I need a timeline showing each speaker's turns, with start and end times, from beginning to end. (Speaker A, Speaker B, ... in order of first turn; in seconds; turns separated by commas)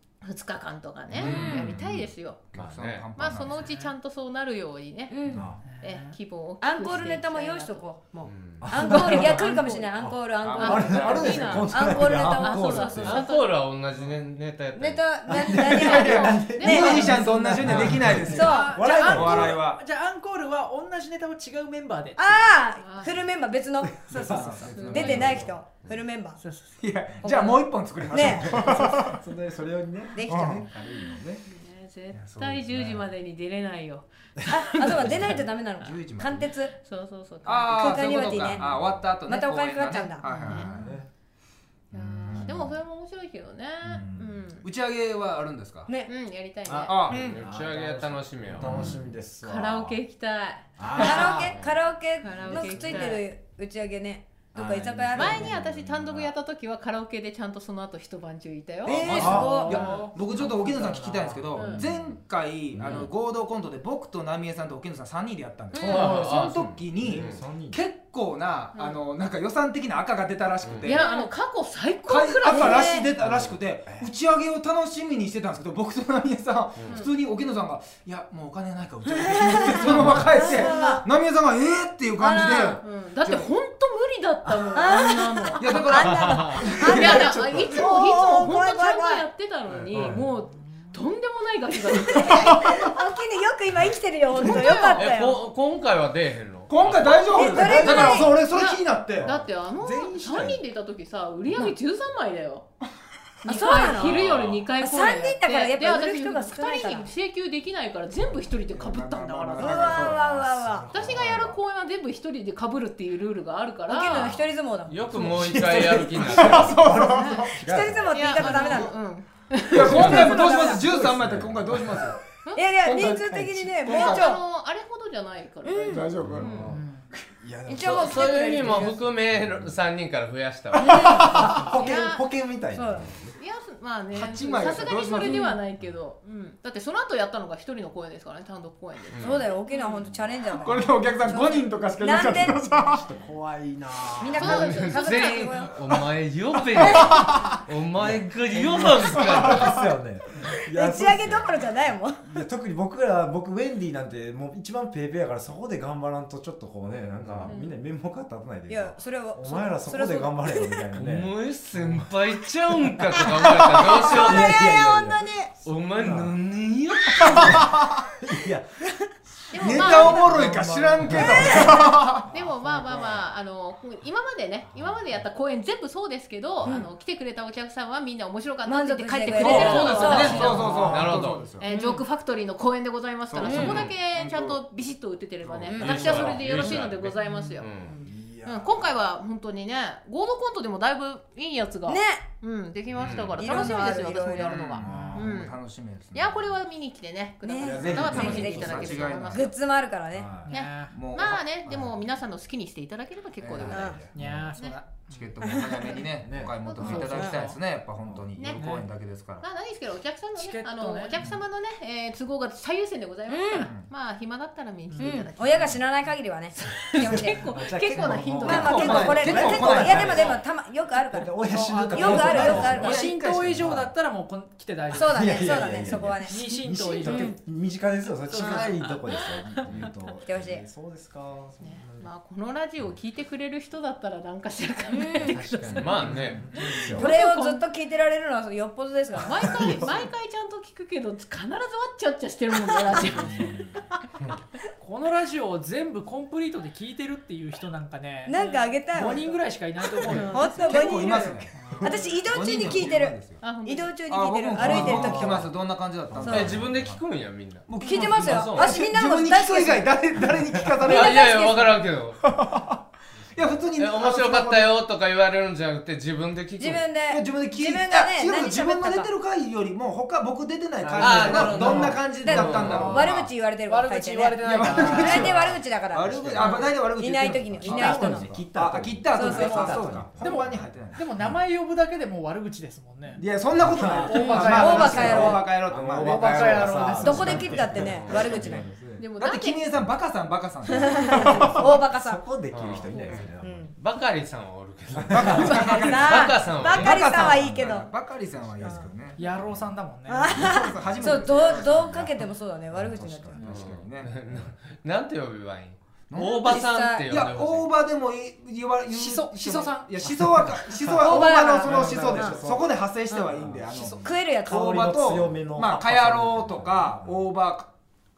Speaker A: 0.2-2.4, Speaker B: 1.1-1.5, Speaker C: 1.2-1.6, Speaker D: 1.2-1.8, Speaker E: 1.4-1.7, Speaker D: 2.5-3.6, Speaker C: 2.5-3.1, Speaker A: 3.1-5.2, Speaker F: 3.5-3.9, Speaker E: 5.1-5.5, Speaker B: 5.3-5.6, Speaker F: 5.6-6.2, Speaker A: 5.8-7.9, Speaker E: 6.6-13.0, Speaker C: 8.3-8.7, Speaker B: 8.6-13.3, Speaker A: 8.9-9.9, Speaker D: 10.4-11.7, Speaker A: 10.5-13.6, Speaker C: 13.0-15.0, Speaker E: 14.8-17.1, Speaker B: 15.3-19.6, Speaker A: 15.6-17.2, Speaker D: 16.0-18.6, Speaker F: 17.6-22.5, Speaker E: 18.2-19.6, Speaker D: 19.1-19.8, Speaker E: 22.2-26.4, Speaker A: 22.8-23.2, Speaker B: 23.8-25.6, Speaker D: 24.1-25.5, Speaker F: 24.3-24.7, Speaker A: 24.6-25.3, Speaker F: 26.4-26.8, Speaker D: 26.8-29.2, Speaker E: 27.2-28.5, Speaker B: 28.2-31.4, Speaker E: 30.1-30.6, Speaker D: 30.3-30.7, Speaker A: 31.4-35.9, Speaker D: 32.1-32.7, Speaker B: 32.7-33.1, Speaker E: 34.5-36.7, Speaker D: 35.8-36.6, Speaker A: 36.8-38.4, Speaker D: 37.4-41.0, Speaker E: 37.7-38.6, Speaker B: 38.6-39.0, Speaker E: 39.2-40.3, Speaker A: 40.4-40.9, Speaker B: 40.7-41.1, Speaker D: 41.9-42.8, Speaker A: 41.9-44.6, Speaker D: 43.9-45.9, Speaker A: 46.1-47.0, Speaker B: 46.6-50.0, Speaker D: 46.9-47.2, Speaker C: 47.1-48.9, Speaker D: 48.6-49.0, Speaker A: 49.4-51.4, Speaker B: 50.8-51.6, Speaker E: 51.0-55.5, Speaker C: 51.5-51.7, Speaker A: 52.2-53.3, Speaker B: 52.5-53.0, Speaker B: 54.5-56.3, Speaker A: 55.1-59.3, Speaker B: 58.9-62.1, Speaker E: 58.9-59.9, Speaker D: 58.9-71.2, Speaker F: 59.3-60.2, Speaker A: 61.5-61.8, Speaker B: 62.8-63.1, Speaker C: 65.7-67.4, Speaker B: 65.9-66.3, Speaker B: 67.0-67.8, Speaker C: 70.6-71.0, Speaker A: 70.8-73.1, Speaker D: 72.1-83.5, Speaker E: 72.5-73.0, Speaker B: 73.2-74.1, Speaker C: 76.8-77.1, Speaker E: 79.1-81.0, Speaker E: 82.2-82.8, Speaker A: 82.8-86.0, Speaker E: 84.7-89.2, Speaker D: 85.5-88.5, Speaker C: 86.0-87.0, Speaker A: 86.7-92.6, Speaker D: 89.7-90.1, Speaker C: 89.9-90.2, Speaker E: 92.1-95.4, Speaker A: 94.3-95.1, Speaker C: 94.4-97.8, Speaker D: 96.7-99.3, Speaker E: 97.1-98.4, Speaker B: 97.7-98.2, Speaker A: 97.7-102.7, Speaker B: 99.2-100.6, Speaker A: 103.4-110.1, Speaker E: 103.5-104.2, Speaker C: 104.0-104.7, Speaker E: 104.8-107.1, Speaker D: 108.7-110.4, Speaker E: 109.6-110.9, Speaker B: 110.2-111.6, Speaker A: 110.9-114.3, Speaker E: 113.9-115.1, Speaker B: 114.1-114.4, Speaker C: 114.9-116.8, Speaker B: 115.1-118.5, Speaker D: 116.3-117.6, Speaker E: 117.1-118.9, Speaker A: 118.1-120.6, Speaker F: 118.3-118.9, Speaker D: 119.7-122.2, Speaker B: 119.8-122.2, Speaker E: 119.9-120.8, Speaker E: 122.5-124.4, Speaker D: 122.8-124.3, Speaker A: 123.9-126.7, Speaker E: 125.7-126.1, Speaker D: 125.8-126.6, Speaker B: 126.2-126.8, Speaker F: 126.6-127.1, Speaker B: 127.4-129.8, Speaker E: 127.7-129.1, Speaker C: 127.8-131.4, Speaker E: 130.8-131.3, Speaker D: 130.8-131.7, Speaker B: 131.1-133.3, Speaker A: 131.7-132.3, Speaker E: 132.7-133.1, Speaker A: 133.4-140.0, Speaker D: 134.1-135.5, Speaker E: 135.2-135.5, Speaker C: 139.1-139.4, Speaker E: 139.2-142.6, Speaker D: 140.5-143.1, Speaker B: 142.4-144.6, Speaker E: 144.2-145.7, Speaker A: 144.4-145.5, Speaker C: 144.4-149.8, Speaker D: 146.8-147.5, Speaker B: 148.0-162.1, Speaker D: 149.4-149.8, Speaker E: 150.7-152.4, Speaker C: 157.2-157.6, Speaker A: 157.5-157.8, Speaker E: 158.7-160.9, Speaker C: 161.0-164.6, Speaker B: 163.4-166.3, Speaker E: 164.0-165.5, Speaker C: 165.6-166.4, Speaker D: 166.0-167.8, Speaker C: 167.0-167.4, Speaker B: 167.2-167.8, Speaker B: 168.3-168.7, Speaker A: 169.5-170.3, Speaker D: 169.6-172.3, Speaker E: 169.7-170.3, Speaker B: 169.9-171.7, Speaker E: 171.1-171.9, Speaker A: 171.5-181.0, Speaker B: 172.3-173.2, Speaker E: 178.7-180.7, Speaker C: 179.4-181.5, Speaker D: 179.5-181.7, Speaker B: 179.7-181.3, Speaker A: 181.6-187.7, Speaker F: 181.7-182.1, Speaker D: 183.3-184.6, Speaker E: 183.4-183.8, Speaker C: 183.5-183.9, Speaker D: 185.4-186.6, Speaker E: 185.7-186.0, Speaker C: 185.8-188.0, Speaker B: 186.0-186.4, Speaker F: 187.2-187.6, Speaker B: 187.9-188.9, Speaker A: 188.4-195.6, Speaker E: 191.9-192.2, Speaker C: 192.9-193.4, Speaker E: 193.4-194.5, Speaker D: 194.4-196.5, Speaker B: 194.8-195.3, Speaker F: 194.8-195.3, Speaker A: 196.1-199.6, Speaker E: 197.4-200.4, Speaker B: 197.6-199.3, Speaker D: 197.9-199.4, Speaker B: 200.1-200.6, Speaker F: 200.4-201.1, Speaker A: 200.5-204.8, Speaker D: 200.9-201.5, Speaker B: 201.7-202.0, Speaker D: 203.4-204.0, Speaker E: 203.7-204.1, Speaker B: 203.8-204.5, Speaker F: 204.1-205.9, Speaker D: 205.1-209.5, Speaker E: 205.4-205.7, Speaker B: 206.2-207.0, Speaker A: 206.6-207.3, Speaker F: 206.8-207.6, Speaker E: 207.0-207.4, Speaker A: 208.3-208.6, Speaker F: 208.6-208.9, Speaker A: 209.4-215.8, Speaker F: 210.3-211.2, Speaker E: 213.3-213.7, Speaker D: 213.6-213.9, Speaker F: 214.9-215.2, Speaker E: 215.0-217.5, Speaker A: 216.5-220.0, Speaker B: 216.9-220.4, Speaker E: 218.4-221.4, Speaker D: 218.7-220.3, Speaker B: 221.1-223.0, Speaker F: 221.4-227.3, Speaker D: 221.8-223.9, Speaker E: 221.9-223.0, Speaker B: 223.5-223.9, Speaker E: 224.9-226.6, Speaker B: 225.1-232.1, Speaker E: 227.1-227.4, Speaker A: 228.3-229.8, Speaker F: 228.4-228.9, Speaker E: 228.4-228.6, Speaker E: 230.2-230.7, Speaker A: 231.6-237.6, Speaker E: 234.9-235.4, Speaker C: 235.2-236.5, Speaker D: 236.0-237.0, Speaker B: 236.1-237.1, Speaker E: 237.0-239.8, Speaker A: 239.2-243.6, Speaker B: 239.3-240.1, Speaker D: 243.1-243.8, Speaker F: 244.8-250.9, Speaker E: 248.2-249.3, Speaker A: 248.3-248.7, Speaker E: 250.0-255.5, Speaker D: 250.7-253.5, Speaker F: 251.6-252.1, Speaker A: 253.4-253.9, Speaker D: 254.1-257.0, Speaker B: 254.6-255.5, Speaker B: 256.1-256.8, Speaker E: 256.2-256.6, Speaker C: 256.3-258.8, Speaker D: 257.7-261.3, Speaker E: 257.8-260.3, Speaker C: 260.8-262.2, Speaker E: 260.8-261.8, Speaker D: 262.2-262.8, Speaker D: 263.3-264.8, Speaker C: 263.7-266.9, Speaker E: 266.6-269.1, Speaker D: 267.1-273.3, Speaker B: 270.8-271.7, Speaker C: 270.9-273.1, Speaker E: 271.3-278.4, Speaker F: 271.6-271.8, Speaker B: 272.6-273.1, Speaker F: 273.6-275.4, Speaker D: 274.4-281.1, Speaker B: 274.6-275.4, Speaker B: 276.1-276.5, Speaker B: 277.7-280.6, Speaker E: 279.1-279.8, Speaker F: 279.3-285.4, Speaker D: 283.1-291.7, Speaker B: 283.6-288.6, Speaker E: 284.1-285.5, Speaker F: 286.0-287.7, Speaker E: 286.6-288.6, Speaker C: 287.8-288.4, Speaker A: 289.0-289.7, Speaker E: 290.7-292.2, Speaker B: 291.0-293.7, Speaker C: 292.5-292.9, Speaker E: 292.9-293.7, Speaker C: 293.8-297.3, Speaker B: 294.9-295.7, Speaker D: 295.1-299.2, Speaker E: 295.4-297.9, Speaker E: 298.6-298.9, Speaker F: 299.1-300.4, Speaker B: 299.4-299.7, Speaker E: 300.1-303.4, Speaker D: 300.3-302.0, Speaker B: 301.7-302.2, Speaker B: 302.7-303.8, Speaker D: 303.4-304.2, Speaker C: 303.4-307.7, Speaker B: 304.3-304.5, Speaker D: 306.1-317.7, Speaker E: 306.4-307.1, Speaker F: 308.9-311.8, Speaker B: 310.4-312.7, Speaker E: 311.0-312.5, Speaker B: 313.4-313.8, Speaker F: 313.7-314.3, Speaker E: 313.8-314.9, Speaker B: 314.5-317.2